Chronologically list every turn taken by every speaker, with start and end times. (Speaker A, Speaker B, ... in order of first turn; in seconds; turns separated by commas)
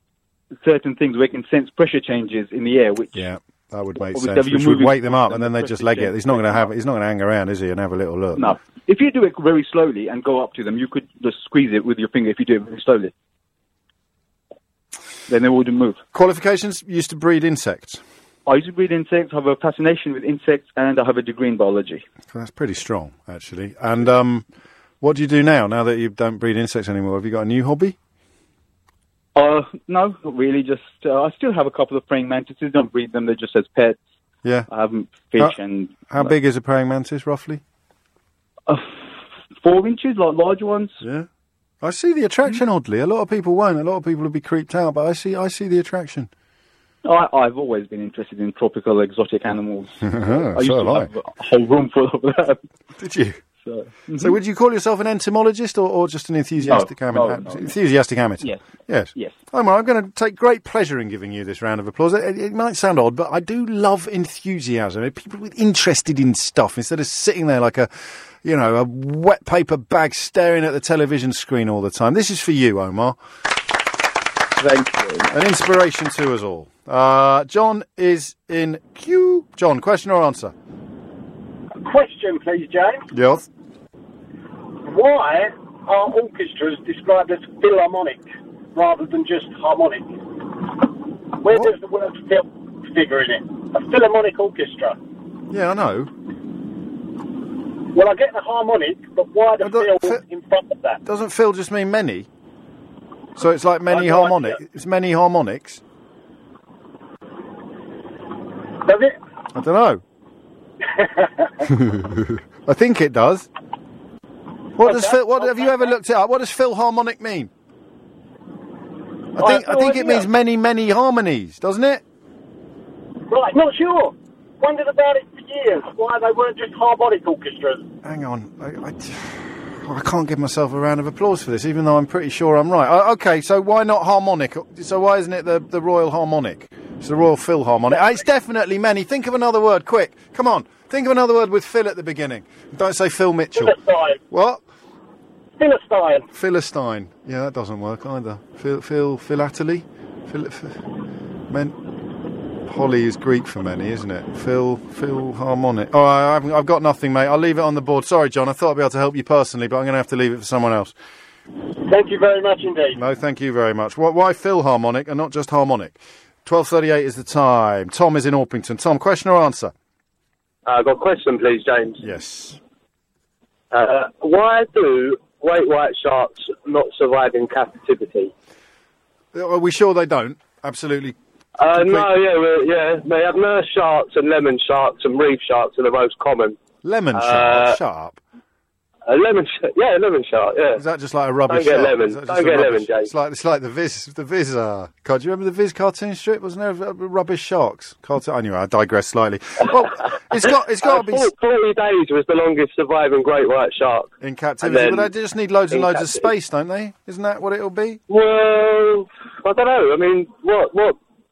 Speaker A: 0.6-3.3, Speaker B: 3.1-8.5, Speaker A: 4.0-6.7, Speaker A: 8.3-13.1, Speaker A: 15.3-16.0, Speaker B: 16.1-18.0, Speaker A: 18.5-22.0, Speaker B: 22.3-24.5, Speaker B: 25.0-28.0, Speaker A: 29.4-34.0, Speaker A: 34.7-36.3, Speaker B: 36.1-37.6, Speaker A: 38.7-39.1, Speaker A: 39.6-41.0, Speaker B: 41.0-41.3, Speaker B: 41.8-46.3, Speaker A: 47.0-52.6, Speaker B: 50.0-51.1, Speaker B: 53.0-53.4, Speaker A: 53.6-54.4, Speaker B: 54.2-73.2, Speaker A: 56.6-57.8, Speaker A: 74.6-75.3, Speaker B: 75.3-80.5, Speaker C: 81.8-83.0, Speaker B: 83.1-83.5, Speaker C: 84.8-88.2, Speaker C: 88.8-90.1, Speaker C: 91.4-95.0, Speaker B: 95.5-96.1, Speaker C: 97.9-101.0, Speaker B: 99.6-100.2, Speaker B: 101.0-102.3, Speaker B: 103.4-105.8, Speaker C: 103.9-104.5, Speaker C: 108.8-109.1, Speaker B: 109.5-110.0, Speaker C: 111.0-111.5, Speaker B: 111.7-113.5, Speaker B: 114.8-117.5, Speaker C: 114.8-115.9, Speaker B: 119.4-122.0, Speaker C: 119.4-120.2, Speaker C: 123.3-127.8, Speaker B: 128.0-143.8, Speaker C: 143.6-144.2, Speaker B: 144.3-144.6, Speaker C: 145.6-146.3, Speaker B: 146.3-150.8, Speaker B: 151.5-151.8, Speaker B: 152.7-160.9, Speaker C: 161.9-163.0, Speaker B: 163.0-169.7, Speaker D: 170.7-172.0, Speaker B: 172.0-172.6, Speaker D: 173.7-178.3, Speaker B: 179.3-181.2, Speaker D: 181.6-186.6, Speaker B: 181.7-182.1, Speaker B: 186.8-188.2, Speaker D: 187.1-187.8, Speaker D: 189.1-190.8, Speaker B: 190.8-201.3, Speaker D: 191.5-193.1, Speaker D: 200.8-205.1, Speaker B: 204.2-208.0, Speaker D: 205.7-206.3, Speaker D: 208.1-211.0